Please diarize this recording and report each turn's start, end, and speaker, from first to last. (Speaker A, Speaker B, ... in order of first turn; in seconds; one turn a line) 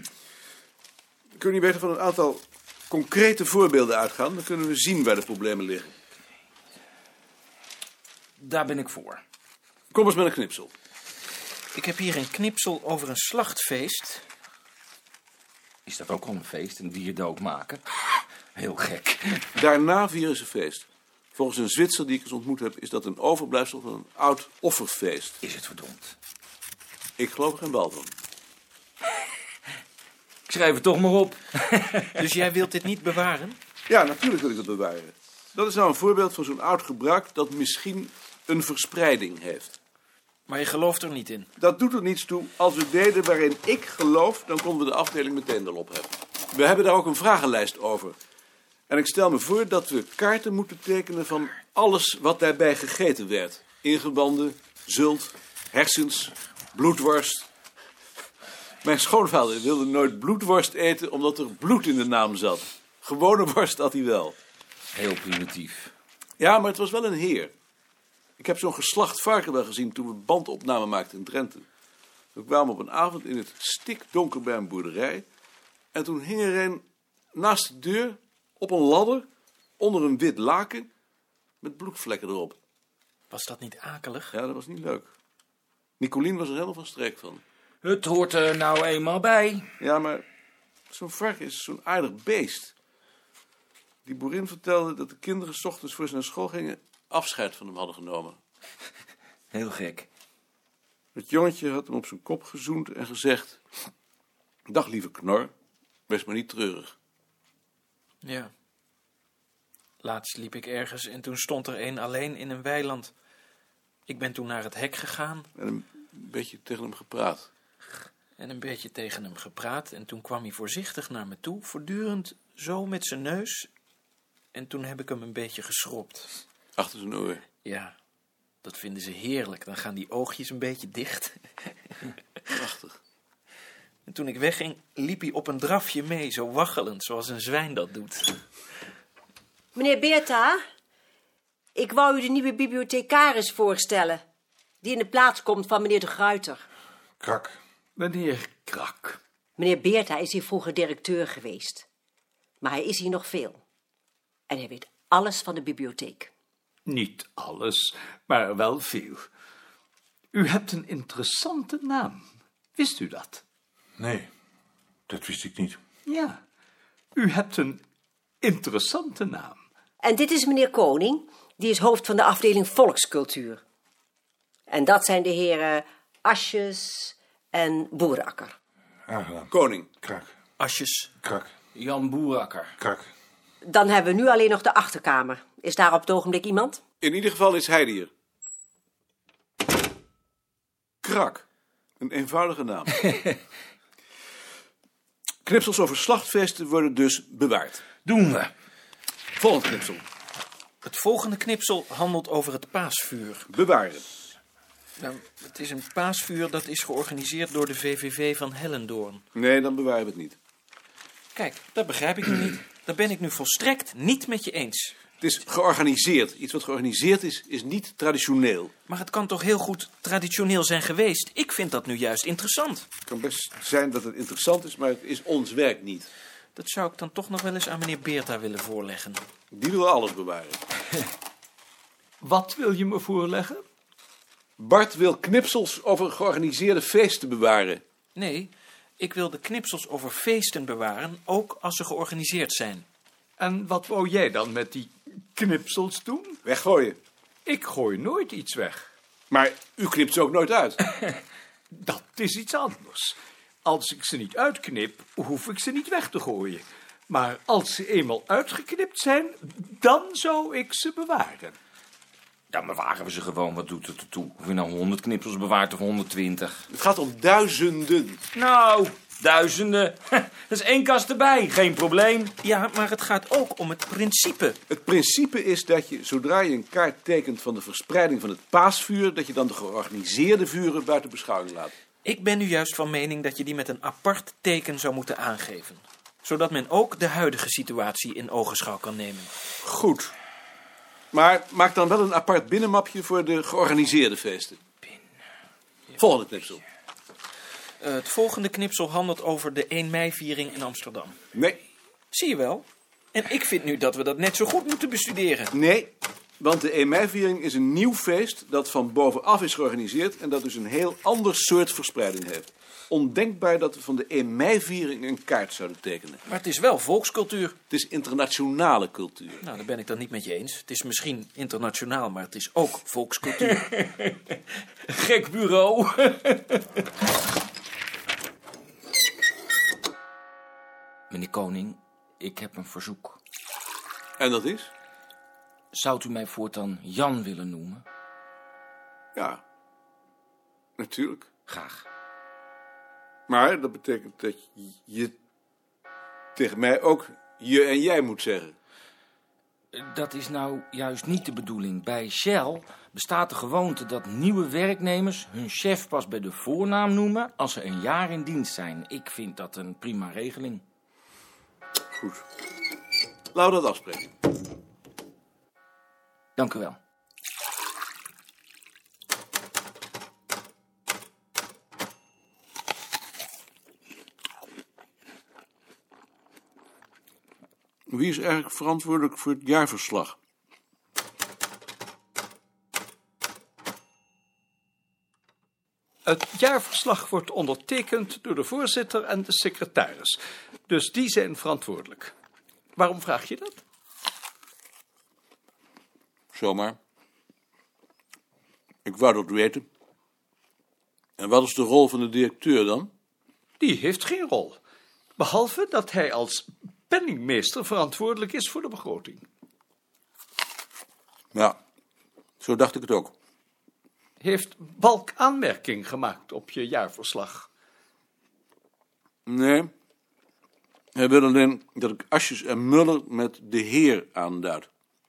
Speaker A: 1.4-5.9
Speaker B: 8.4-9.2
Speaker A: 9.9-10.7
Speaker C: 11.7-14.2
Speaker B: 15.9-19.4
Speaker A: 19.6-25.4
Speaker B: 25.4-26.1
Speaker A: 27.2-28.1
Speaker B: 30.5-32.2
Speaker C: 32.2-33.6
Speaker A: 33.9-39.8
Speaker C: 40.5-41.5
Speaker A: 41.6-48.2
Speaker A: 48.9-57.5
Speaker A: 58.8-64.4
Speaker B: 64.9-65.9
Speaker A: 66.4-67.5
Speaker A: 68.4-71.7
Speaker A: 72.3-75.3
Speaker A: 75.9-76.8
Speaker A: 77.4-79.3
Speaker A: 79.8-80.9
Speaker A: 81.6-82.6
Speaker C: 83.3-84.3
Speaker A: 84.3-85.1
Speaker A: 86.0-87.4
Speaker B: 87.8-89.7
Speaker A: 89.8-90.2
Speaker A: 90.9-92.7
Speaker A: 94.0-98.4
Speaker B: 99.5-100.1
Speaker A: 101.2-103.6
Speaker A: 104.7-105.5
Speaker A: 106.1-106.9
Speaker C: 108.2-108.5
Speaker C: 110.0-113.1
Speaker C: 114.1-115.5
Speaker A: 115.6-117.5
Speaker C: 118.4-123.7
Speaker C: 124.5-126.4
Speaker A: 126.8-127.4
Speaker C: 127.6-128.0
Speaker C: 128.6-132.1
Speaker A: 132.5-132.9
Speaker C: 134.1-138.4
Speaker D: 139.8-140.6
Speaker D: 141.8-144.2
Speaker D: 144.8-146.7
Speaker E: 147.2-147.6
Speaker F: 148.0-149.2
Speaker D: 149.6-151.9
Speaker D: 152.6-153.6
Speaker D: 154.5-156.3
Speaker F: 156.9-159.3
Speaker F: 160.3-163.4
Speaker E: 164.0-164.3
Speaker E: 165.1-165.8
Speaker F: 166.1-166.4
Speaker F: 167.2-167.8
Speaker F: 168.4-169.6
Speaker D: 170.0-173.6
Speaker D: 174.7-178.5
Speaker E: 179.1-179.5
Speaker A: 179.5-180.0
Speaker C: 180.6-181.1
Speaker B: 181.8-182.7
Speaker D: 183.6-186.8
Speaker A: 187.0-188.1
Speaker A: 191.0-191.4
Speaker A: 192.0-193.1
Speaker A: 195.4-197.8
Speaker B: 198.1-198.5
Speaker A: 199.4-200.0
Speaker C: 200.8-203.5
Speaker A: 203.5-204.1
Speaker C: 205.0-209.2
Speaker A: 209.3-210.4
Speaker C: 211.3-215.0
Speaker A: 215.2-218.7
Speaker C: 218.9-222.9
Speaker A: 223.1-226.1
Speaker C: 226.6-229.2
Speaker A: 229.5-230.6
Speaker F: 232.2-233.6
Speaker A: 234.6-237.8
Speaker C: 238.2-242.9
Speaker F: 243.4-246.4
Speaker A: 246.5-247.0
Speaker F: 247.5-248.9
Speaker A: 249.3-250.9
Speaker F: 251.7-261.6
Speaker B: 262.5-266.6
Speaker A: 266.7-268.2
Speaker B: 268.3-272.3
Speaker C: 272.4-274.6
Speaker A: 274.7-281.7
Speaker C: 282.0-289.3
Speaker A: 289.6-290.1
Speaker A: 291.1-294.6
Speaker A: 296.0-296.6
Speaker C: 297.8-301.2
Speaker A: 301.3-301.6
Speaker C: 302.1-305.5
Speaker A: 305.5-316.2
Speaker C: 316.3-317.6
Speaker A: 317.7-319.4
Speaker C: 319.4-323.7
Speaker B: 325.0-326.3
Speaker B: 331.1-333.2
Speaker A: 334.2-334.7
Speaker B: 335.7-337.8
Speaker A: 339.1-339.4
Speaker A: 340.8-341.3
Speaker B: 341.5-341.8
Speaker A: 343.3-345.1
Speaker A: 346.4-348.6
Speaker B: 349.8-360.6
Speaker A: 361.9-362.2
Speaker A: 363.3-364.1
Speaker B: 366.4-366.8
Speaker A: 377.9-380.2
Speaker F: 386.1-392.1
Speaker F: 392.8-393.6
Speaker A: 396.3-396.8
Speaker A: 398.9-399.7
Speaker A: 401.2-402.9
Speaker F: 403.6-404.6
Speaker F: 405.2-409.2
Speaker A: 412.4-413.1
Speaker F: 414.2-417.5
Speaker A: 419.3-419.7
Speaker A: 421.0-424.7